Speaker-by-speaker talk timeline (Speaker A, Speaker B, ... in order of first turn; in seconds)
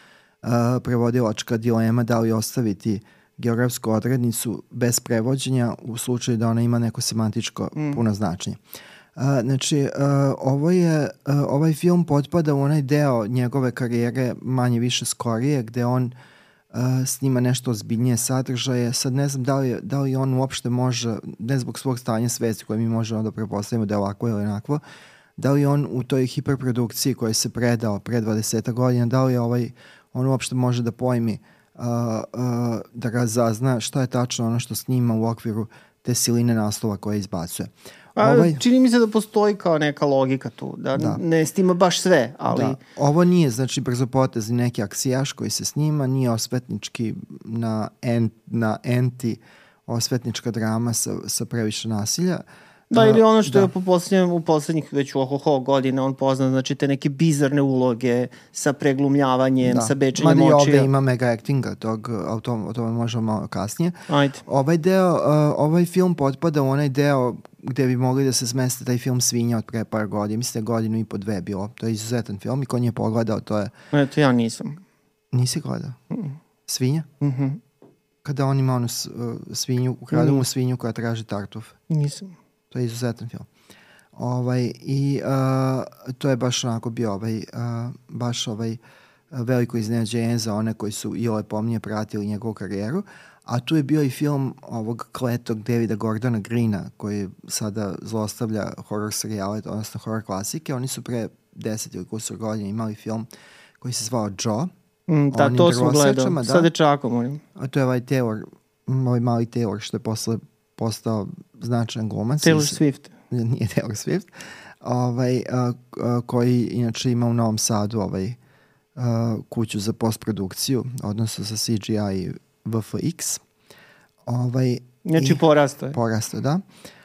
Speaker A: 0.4-8.6, 9.2-16.1, 16.7-24.8, 25.4-38.6, 40.9-41.2, 42.5-53.7, 59.6-63.9, 64.4-73.7, 75.3-76.0, 76.7-77.1, 78.2-81.8, 82.7-83.5, 84.2-88.8, 89.3-103.3, 103.8-104.7, 105.3-106.7, 107.5-112.8, 113.3-114.3, 114.8-118.4, 119.0-123.4, 124.2-126.6
Speaker B: 7.7-8.0, 38.2-42.8, 52.9-60.9, 64.1-64.4, 73.9-74.8, 77.2-77.6, 80.1-80.4, 81.9-82.3, 105.1-107.4, 112.4-113.1, 125.0-126.0